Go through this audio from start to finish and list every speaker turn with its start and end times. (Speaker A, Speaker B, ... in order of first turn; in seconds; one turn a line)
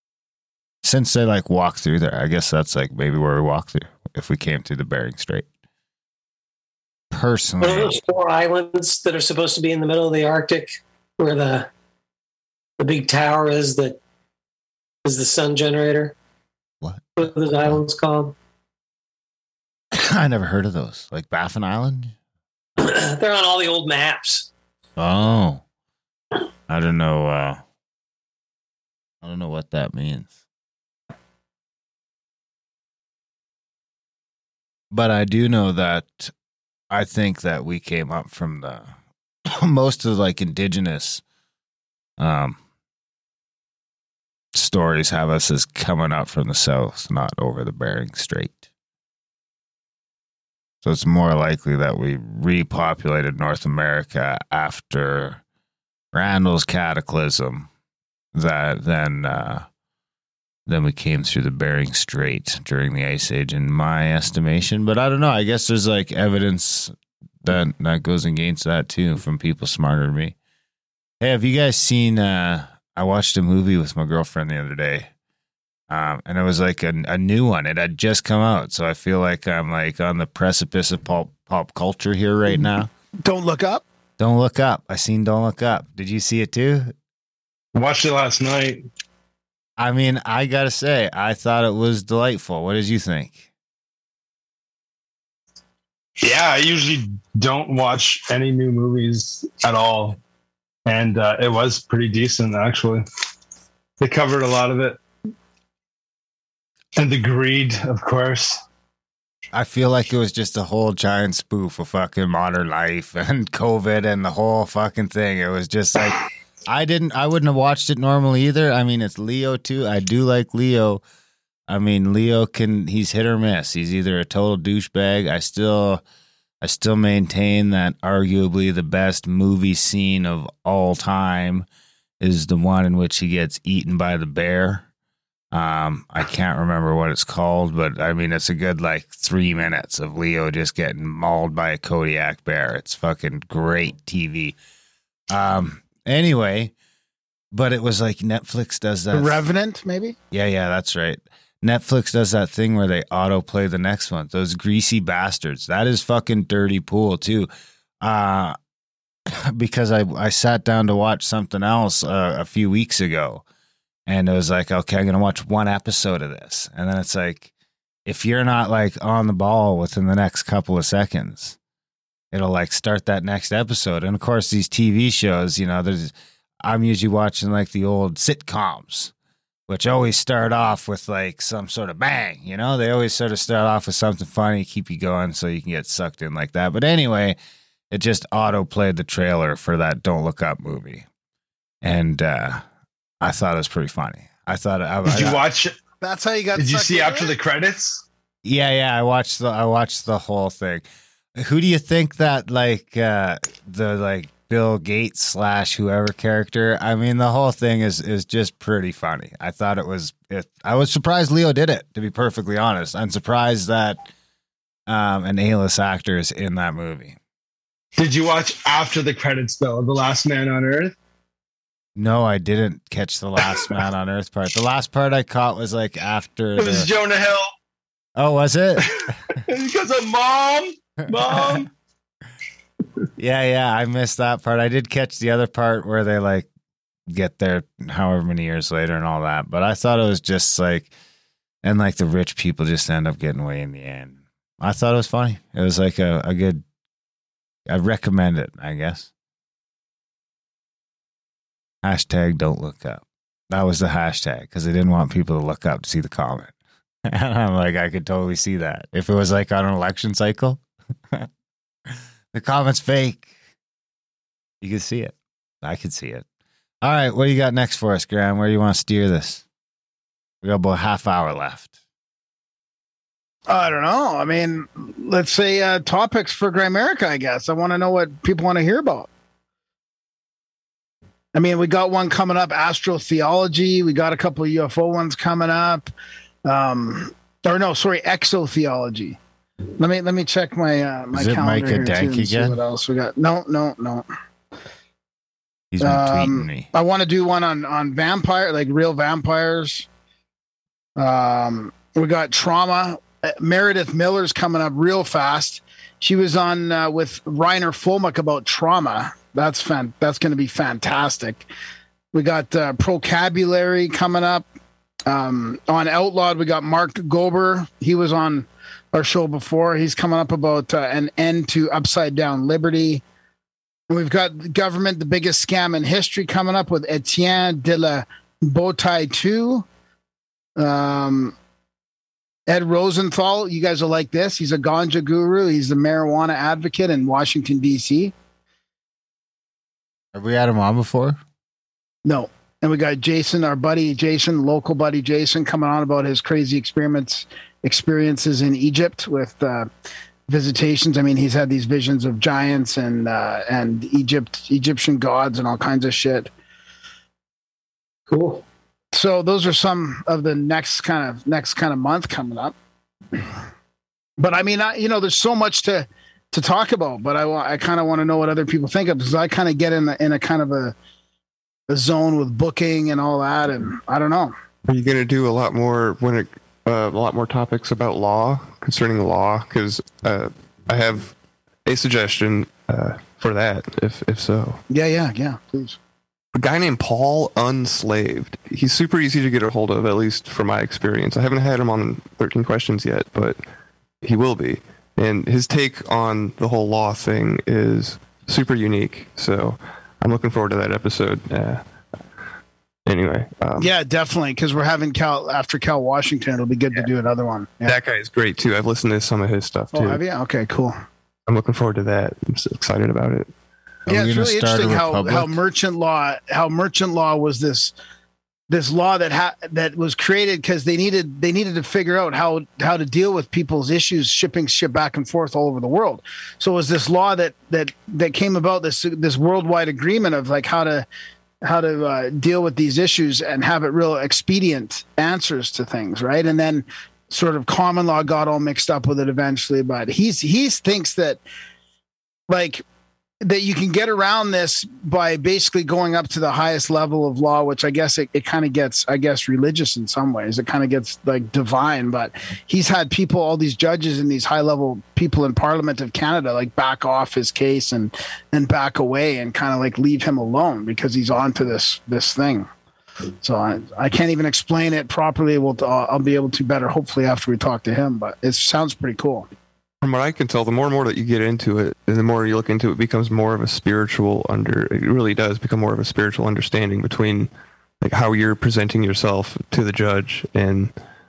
Speaker A: 0.8-5.5
Speaker A: 7.1-8.0
Speaker B: 7.6-11.7
Speaker B: 12.8-14.0
Speaker B: 15.1-16.1
Speaker A: 16.8-17.8
Speaker B: 17.2-18.3
Speaker A: 19.9-22.1
Speaker B: 22.8-24.5
Speaker A: 25.0-25.6
Speaker A: 26.7-27.6
Speaker A: 29.2-30.3
Speaker A: 34.9-36.3
Speaker A: 36.9-38.9
Speaker A: 39.5-41.2
Speaker A: 42.2-42.6
Speaker A: 44.5-48.7
Speaker A: 50.8-55.4
Speaker A: 56.1-57.7
Speaker A: 58.3-59.7
Speaker A: 60.7-70.3
Speaker A: 71.2-75.1
Speaker A: 75.9-82.9
Speaker C: 83.2-83.8
Speaker A: 84.2-86.9
Speaker D: 87.7-88.8
Speaker A: 89.8-93.5
Speaker D: 96.2-100.2
Speaker D: 100.9-103.0
Speaker D: 104.0-105.0
Speaker D: 107.0-108.6
Speaker A: 109.5-121.0
Speaker A: 121.7-126.0
Speaker A: 126.6-131.7
Speaker A: 132.2-134.8
Speaker A: 135.5-144.6
Speaker A: 145.3-146.7
Speaker A: 147.5-149.4
Speaker C: 149.1-150.2
Speaker A: 150.3-157.5
Speaker A: 158.0-158.6
Speaker A: 159.3-163.4
Speaker A: 164.1-167.5
Speaker A: 168.1-171.6
Speaker A: 172.3-179.1
Speaker A: 179.7-187.4
Speaker A: 187.9-191.1
Speaker A: 191.8-192.7
Speaker A: 193.2-195.4
Speaker D: 195.0-195.8
Speaker C: 196.0-197.3
Speaker D: 196.6-198.0
Speaker A: 198.4-214.1
Speaker A: 214.9-217.2
Speaker D: 218.0-220.9
Speaker A: 222.0-226.9
Speaker D: 223.4-223.7
Speaker D: 226.6-227.5
Speaker A: 228.2-229.1
Speaker D: 229.4-231.7
Speaker A: 233.2-236.5
Speaker A: 237.1-240.9
Speaker A: 241.6-246.6
Speaker A: 247.7-249.1
Speaker A: 251.8-256.6
Speaker A: 257.1-261.3
Speaker A: 261.9-263.3
Speaker A: 264.6-266.2
Speaker A: 266.8-269.4
Speaker A: 270.4-271.7
Speaker C: 273.5-279.1
Speaker C: 281.3-285.9
Speaker C: 286.5-289.2
Speaker C: 289.8-294.1
Speaker A: 291.1-292.6
Speaker A: 295.7-296.7
Speaker C: 295.8-299.9
Speaker C: 301.0-311.5
Speaker C: 312.1-314.5
Speaker C: 315.1-323.0
Speaker C: 323.9-329.7
Speaker C: 330.6-331.4
Speaker C: 332.5-338.1
Speaker A: 340.1-341.2
Speaker C: 342.1-349.7
Speaker C: 350.3-356.3
Speaker B: 358.1-358.4
Speaker C: 358.9-362.6
Speaker C: 364.2-370.8
Speaker C: 371.7-374.3
Speaker E: 374.7-384.6
Speaker C: 384.7-385.8
Speaker E: 386.3-393.4
Speaker E: 394.0-401.6
Speaker E: 402.9-403.7
Speaker C: 403.6-407.8
Speaker E: 407.6-410.0
Speaker C: 409.7-410.8
Speaker E: 411.3-413.3
Speaker A: 413.9-415.4
Speaker C: 413.9-417.7
Speaker C: 418.5-430.9
Speaker C: 431.4-441.2
Speaker C: 442.3-442.6
Speaker C: 443.2-462.5
Speaker C: 463.2-469.3
Speaker E: 469.8-477.3
Speaker E: 477.8-480.7